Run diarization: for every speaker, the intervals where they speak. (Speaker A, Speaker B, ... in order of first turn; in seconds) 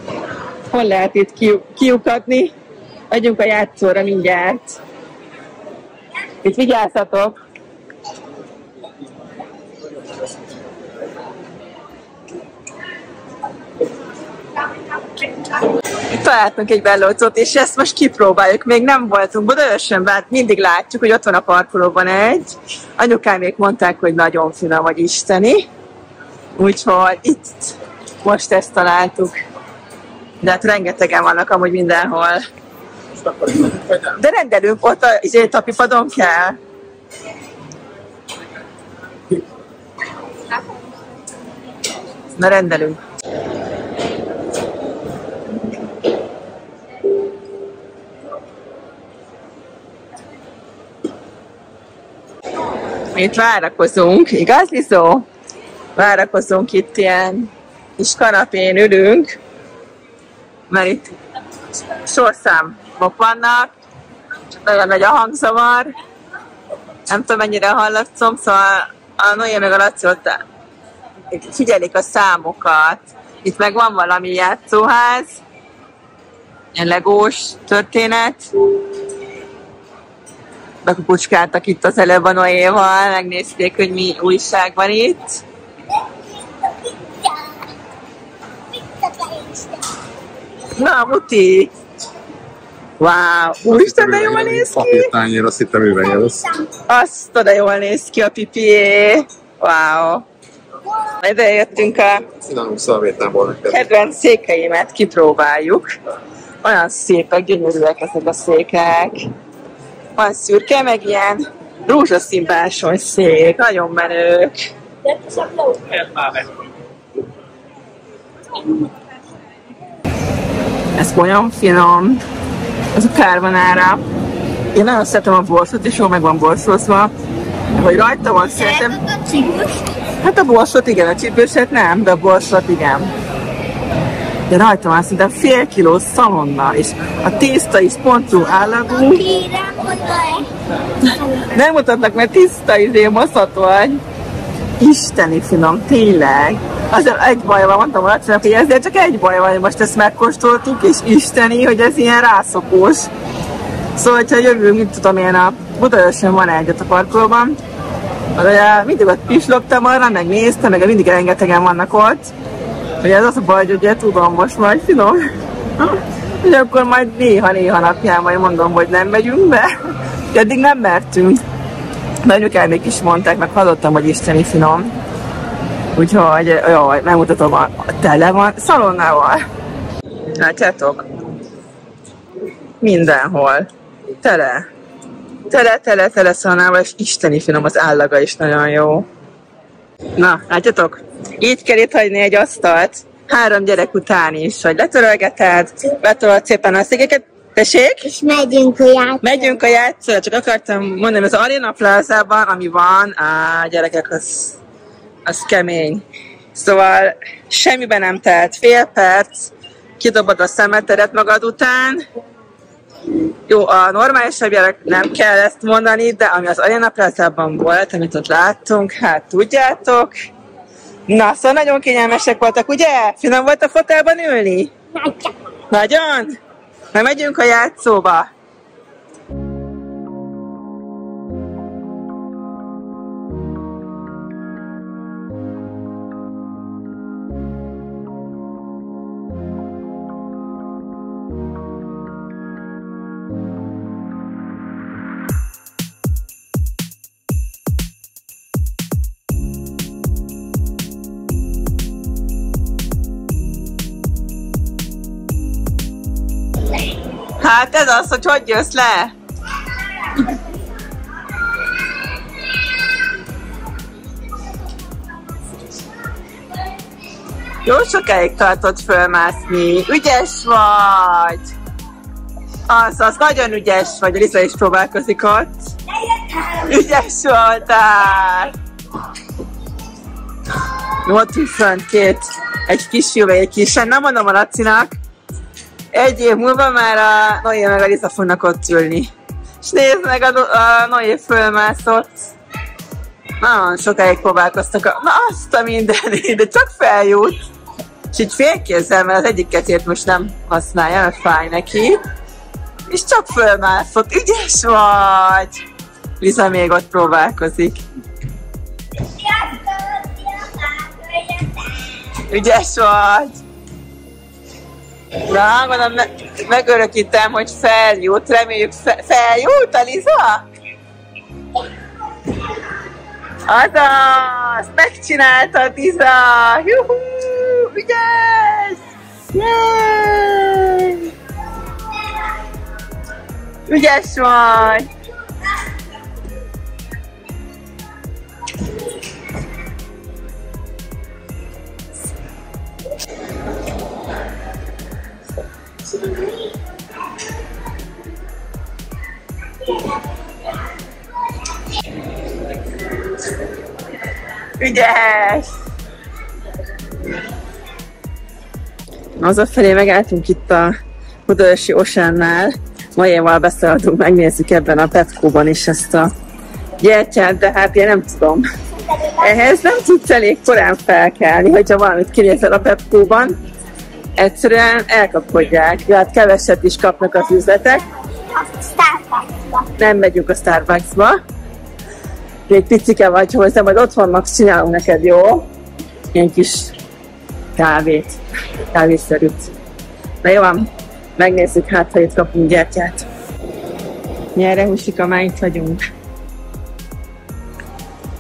Speaker A: 0.7-2.5, 3.1-4.8, 6.4-7.4, 16.1-25.7, 26.6-29.4, 30.4-32.5, 33.7-36.6, 42.4-43.0, 53.1-55.3, 56.0-59.4, 60.7-61.1, 61.9-63.7, 64.6-65.9, 67.1-70.4, 71.3-75.4, 76.7-78.5, 80.8-85.4, 90.8-91.7, 93.0-95.1, 96.9-100.3, 101.1-102.3, 103.7-105.9, 106.6-109.3, 110.2-114.7, 121.0-122.2, 123.0-124.0, 124.7-127.1, 127.8-129.0, 130.2-133.1, 134.5-139.3, 141.0-144.0, 144.8-153.1, 154.0-157.6, 158.4-162.3, 163.0-165.2, 165.8-169.7, 170.3-171.4, 172.2-174.9, 176.0-179.4, 180.4-181.0, 182.8-183.7, 184.2-184.7, 185.5-189.1, 190.2-198.1, 199.2-204.6, 205.3-212.0, 213.5-220.1, 221.1-224.7, 225.7-226.4, 226.9-228.3, 257.4-259.1, 267.6-271.5, 272.7-275.7, 276.4-278.5, 280.9-285.0, 285.9-292.4, 293.4-297.4, 298.1-302.0, 302.9-305.6, 306.2-307.8, 312.2-313.4, 315.2-320.4, 323.5-328.8, 329.3-331.1, 333.7-334.9, 354.6-355.5, 359.2-360.8, 361.3-366.1, 366.8-368.5, 369.2-373.4, 374.2-377.9, 379.8-381.2, 382.5-385.5, 386.1-386.7, 387.6-388.2, 388.7-389.5, 390.2-393.1, 394.4-395.8
Speaker B: 86.0-87.7, 88.7-89.9, 115.1-115.7, 128.6-129.9, 138.8-140.5, 198.1-199.6, 225.0-225.3, 309.1-311.6, 368.9-369.7, 378.2-379.7
Speaker C: 93.7-96.5, 102.3-103.9